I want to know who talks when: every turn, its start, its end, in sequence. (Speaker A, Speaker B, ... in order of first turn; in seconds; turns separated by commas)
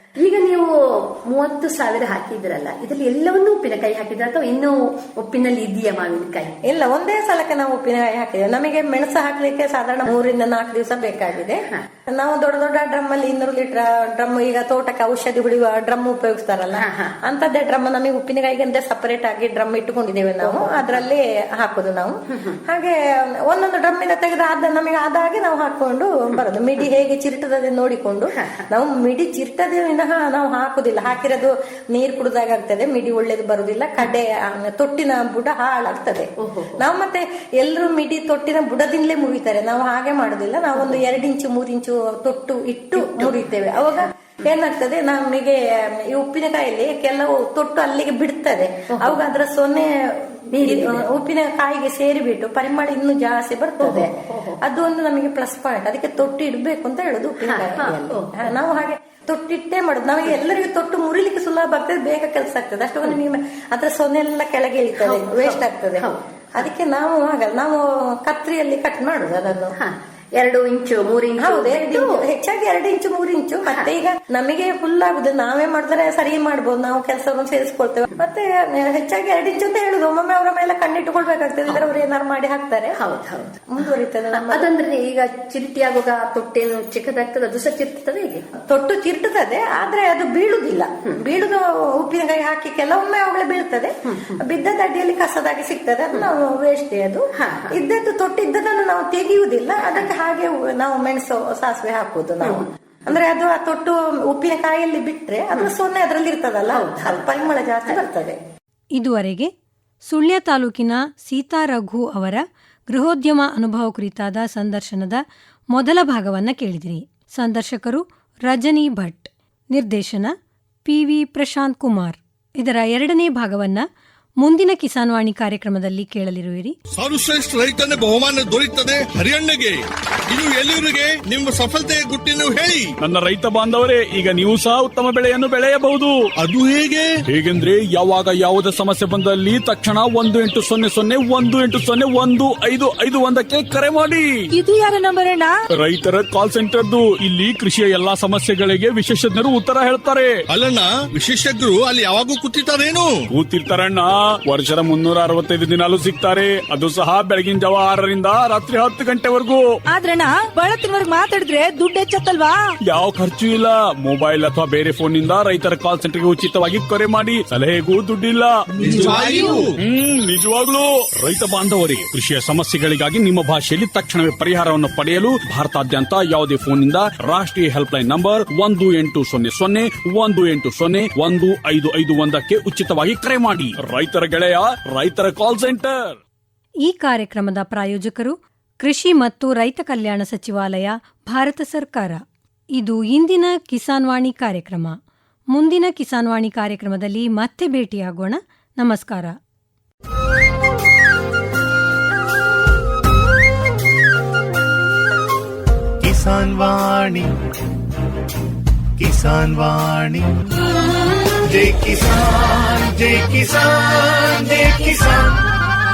Speaker A: 0.2-6.5, Speaker B: 6.6-69.7, Speaker A: 16.8-17.1, Speaker A: 20.4-21.0, Speaker A: 36.4-36.8, Speaker A: 42.9-43.4, Speaker A: 50.5-51.0, Speaker A: 53.8-54.6, Speaker A: 57.4-58.5, Speaker A: 64.9-66.7, Speaker A: 69.8-72.3, Speaker B: 71.4-83.0, Speaker A: 81.7-82.0, Speaker A: 83.0-88.5, Speaker B: 83.7-84.7, Speaker B: 88.6-108.4, Speaker A: 94.1-94.4, Speaker A: 97.4-97.8, Speaker A: 102.4-102.7, Speaker A: 106.7-108.0, Speaker C: 109.0-109.5, Speaker C: 110.1-115.2, Speaker C: 115.7-120.3, Speaker C: 120.8-123.8, Speaker C: 124.4-126.7, Speaker D: 127.0-132.9, Speaker E: 133.0-136.2, Speaker D: 136.4-137.1, Speaker E: 137.3-144.2, Speaker F: 144.5-145.5, Speaker E: 145.8-150.3, Speaker D: 150.5-153.1, Speaker E: 153.3-159.6, Speaker F: 159.9-162.6, Speaker E: 162.8-169.2, Speaker D: 168.8-169.8, Speaker E: 169.8-186.2, Speaker C: 186.8-192.2, Speaker C: 192.8-195.0, Speaker C: 195.5-199.3, Speaker G: 206.0-207.3, Speaker G: 209.0-210.2, Speaker G: 211.4-215.4